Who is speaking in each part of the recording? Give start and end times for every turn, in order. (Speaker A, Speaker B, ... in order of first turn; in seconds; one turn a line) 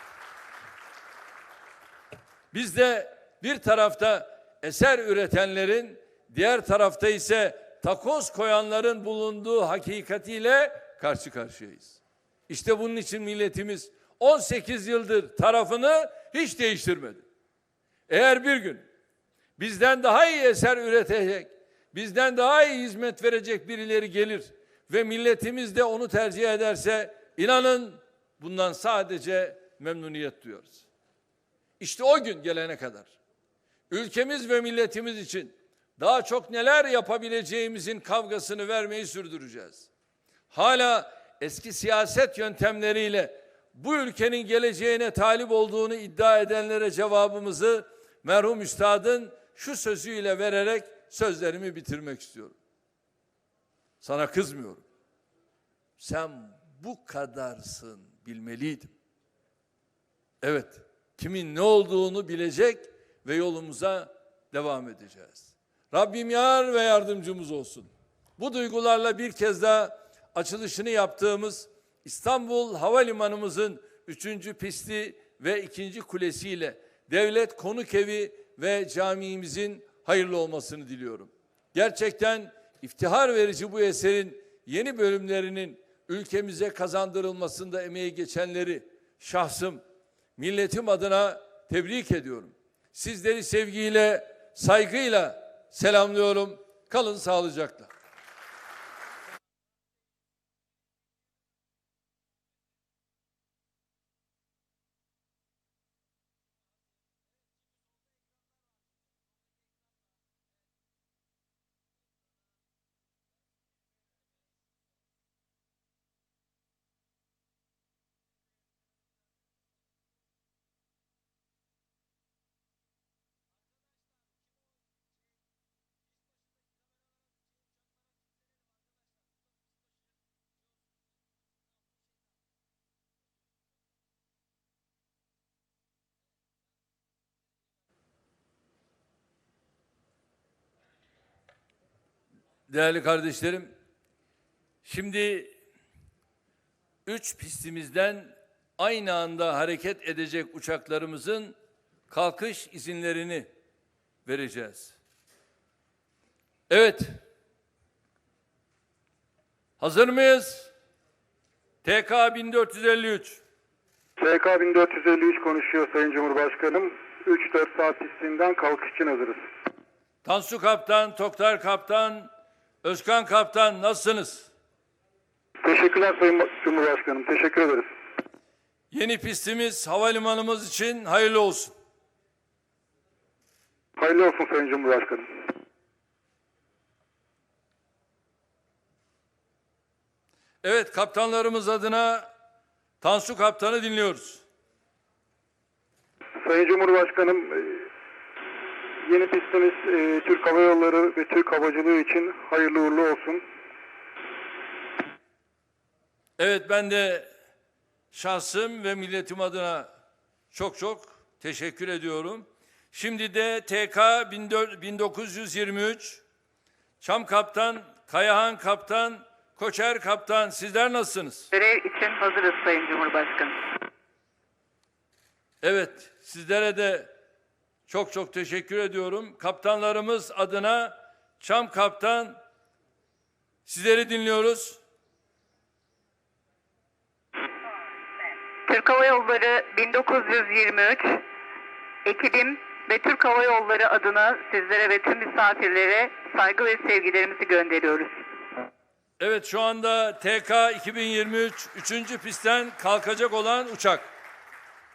Speaker A: 2.5-17.2
Speaker A: 18.1-18.8
Speaker A: 19.6-30.9
Speaker A: 31.8-33.1
Speaker A: 33.9-39.9
Speaker A: 40.5-52.5
Speaker A: 54.0-54.8
Speaker A: 56.0-58.9
Speaker A: 60.4-89.8
Speaker A: 90.4-97.9
Speaker A: 142.7-143.7
Speaker A: 144.8-145.5
Speaker A: 147.1-151.5
Speaker A: 152.1-153.5
Speaker A: 154.2-154.9
Speaker A: 156.7-157.2
Speaker A: 159.8-160.7
Speaker A: 161.8-163.4
Speaker B: 164.2-169.5
Speaker A: 170.2-172.3
Speaker A: 172.8-174.5
Speaker B: 175.6-177.9
Speaker A: 178.9-181.7
Speaker B: 184.0-185.4
Speaker A: 190.6-192.3
Speaker A: 193.0-194.4
Speaker B: 196.4-197.9
Speaker B: 199.0-203.4
Speaker A: 206.4-207.3
Speaker A: 208.1-209.9
Speaker A: 210.5-216.2
Speaker A: 217.0-221.5
Speaker C: 221.5-223.6
Speaker A: 225.6-227.1
Speaker A: 227.9-232.4
Speaker A: 233.7-234.8
Speaker C: 238.7-241.2
Speaker C: 242.0-248.2
Speaker A: 249.2-254.1